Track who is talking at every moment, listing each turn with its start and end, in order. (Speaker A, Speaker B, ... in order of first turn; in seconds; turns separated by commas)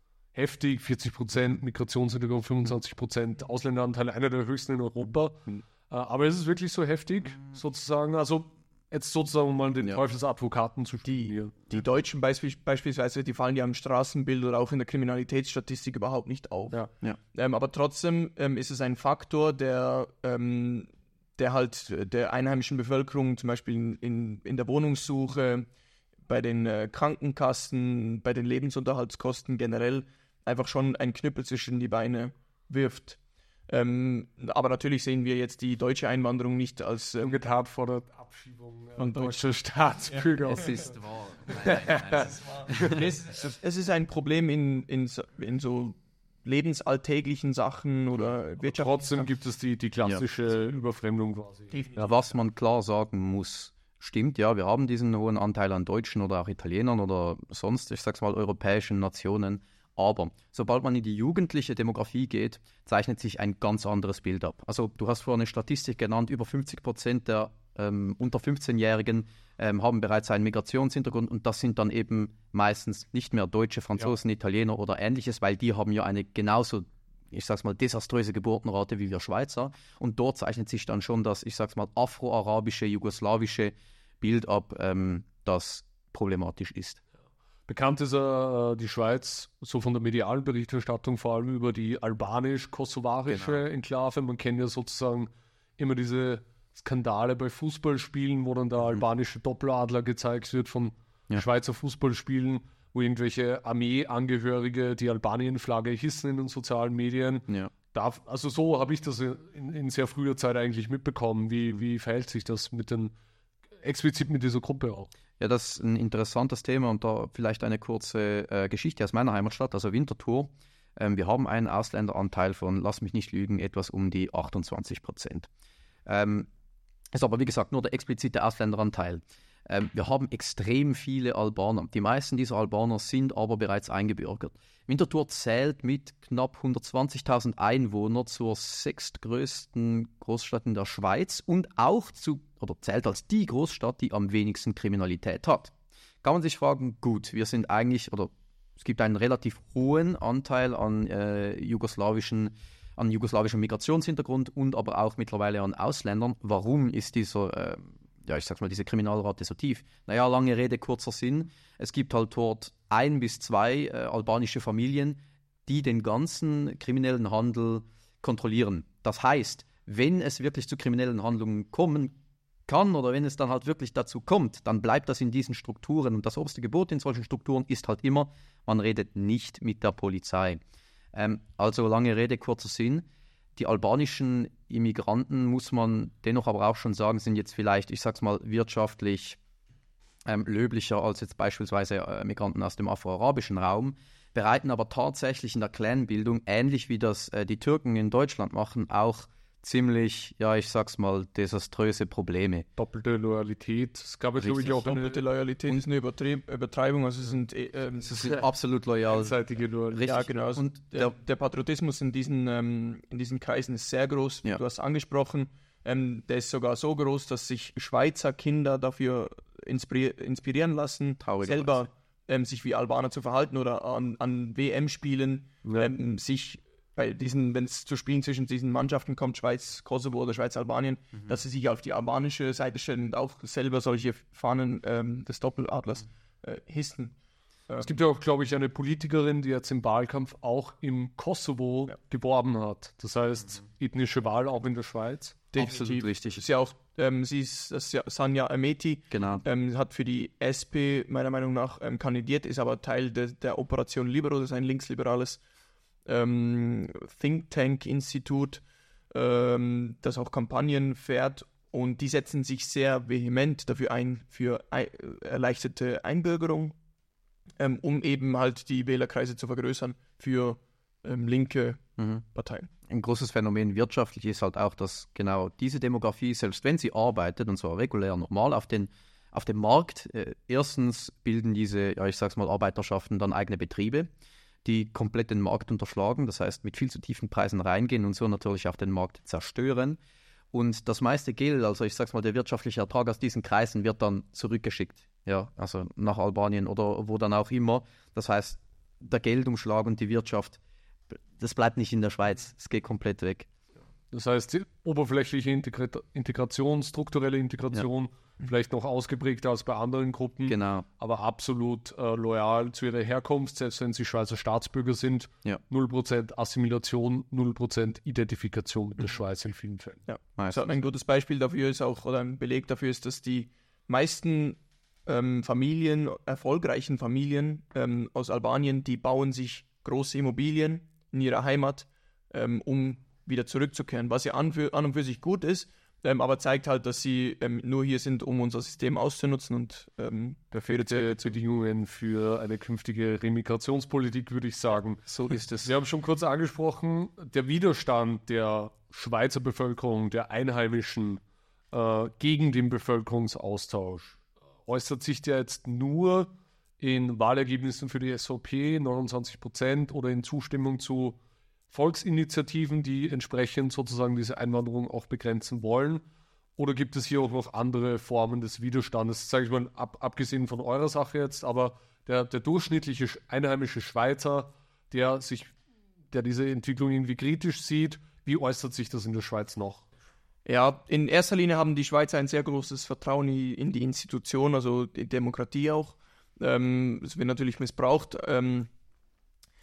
Speaker A: 0.3-11.5, Speaker B: 11.0-25.7, Speaker B: 26.3-33.2, Speaker B: 33.7-37.4, Speaker A: 37.2-40.9, Speaker B: 39.0-39.4, Speaker C: 40.5-43.0, Speaker A: 41.6-43.1, Speaker B: 42.1-49.3, Speaker A: 48.6-52.1, Speaker B: 51.7-52.1, Speaker C: 51.9-87.0, Speaker A: 87.7-113.1, Speaker A: 113.8-115.1, Speaker C: 115.4-125.5, Speaker C: 126.1-126.5, Speaker C: 127.1-172.1, Speaker C: 172.7-180.6, Speaker C: 181.1-189.4, Speaker C: 190.2-202.7, Speaker A: 202.8-205.2, Speaker B: 204.6-208.2, Speaker C: 208.0-209.3, Speaker A: 209.1-210.1, Speaker C: 209.9-211.1, Speaker B: 210.0-237.1, Speaker C: 221.2-221.8, Speaker A: 225.6-225.9, Speaker A: 237.8-245.5, Speaker B: 245.5-255.4, Speaker C: 245.6-246.4, Speaker C: 249.1-249.4, Speaker B: 256.1-266.7, Speaker B: 267.6-272.7, Speaker C: 272.9-284.1, Speaker C: 284.6-290.0, Speaker C: 290.5-300.6, Speaker C: 301.4-303.5, Speaker A: 304.1-320.0, Speaker C: 310.5-310.9, Speaker B: 320.1-341.3, Speaker C: 320.4-320.7, Speaker A: 340.7-345.1, Speaker B: 345.2-345.6, Speaker A: 345.6-351.2, Speaker A: 351.7-361.2, Speaker A: 361.7-366.0, Speaker A: 366.6-375.5, Speaker A: 376.1-379.9, Speaker B: 380.4-388.7